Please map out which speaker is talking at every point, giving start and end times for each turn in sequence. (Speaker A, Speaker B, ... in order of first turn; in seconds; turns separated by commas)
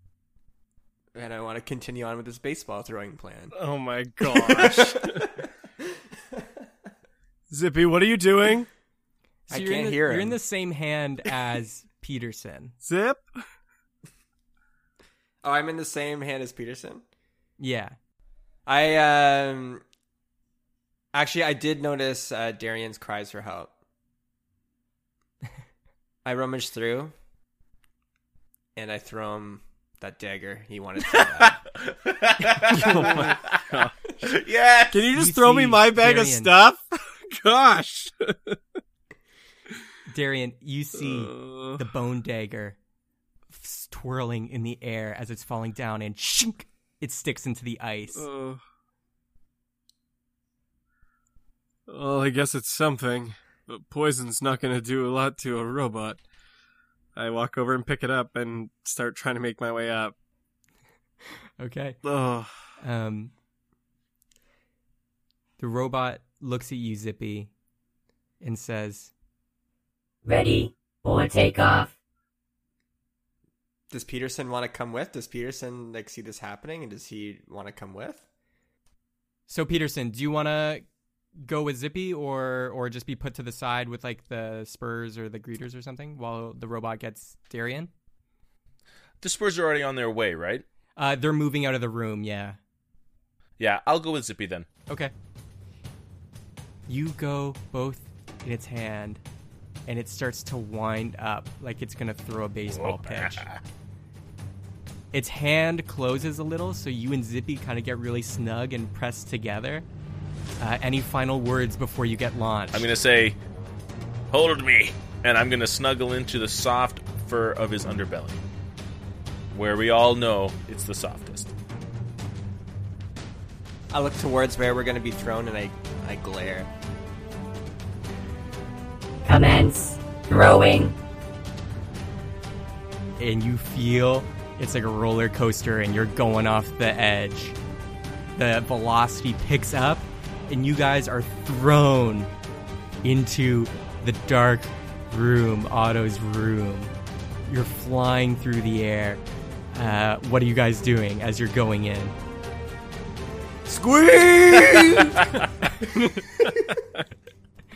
Speaker A: 1.1-3.5, Speaker B: 3.5-5.3, Speaker A: 4.3-5.2, Speaker B: 7.5-8.7, Speaker C: 9.5-12.8, Speaker A: 9.5-10.4, Speaker B: 12.8-13.3, Speaker A: 15.4-17.0, Speaker C: 17.6-18.0, Speaker A: 18.7-19.8, Speaker A: 21.1-23.7, Speaker A: 26.2-27.1, Speaker A: 28.8-31.7, Speaker D: 31.9-33.6, Speaker B: 32.7-33.9, Speaker D: 34.2-35.0, Speaker B: 34.9-38.6, Speaker C: 35.2-36.5, Speaker C: 40.1-42.8, Speaker B: 41.0-41.8, Speaker C: 43.5-48.3, Speaker B: 48.2-48.6, Speaker B: 51.9-56.2, Speaker B: 57.2-60.1, Speaker C: 61.6-62.0, Speaker B: 62.0-62.5, Speaker C: 62.8-63.3, Speaker C: 65.6-67.5, Speaker C: 68.4-69.1, Speaker E: 70.2-71.9, Speaker A: 73.9-78.2, Speaker C: 79.5-80.8, Speaker C: 81.4-87.9, Speaker D: 89.2-90.7, Speaker C: 91.0-92.6, Speaker D: 93.6-94.7, Speaker C: 96.9-99.2, Speaker C: 99.9-103.5, Speaker D: 102.7-103.6, Speaker C: 105.1-109.9, Speaker C: 110.6-112.9, Speaker D: 112.7-113.4, Speaker D: 114.3-118.4, Speaker D: 119.5-121.5, Speaker A: 123.9-126.7, Speaker E: 129.2-130.9, Speaker C: 133.2-137.6, Speaker C: 138.3-142.3, Speaker C: 143.0-146.9, Speaker C: 147.5-149.2, Speaker C: 149.7-152.1, Speaker A: 153.7-155.2, Speaker D: 154.7-155.1, Speaker C: 155.8-156.2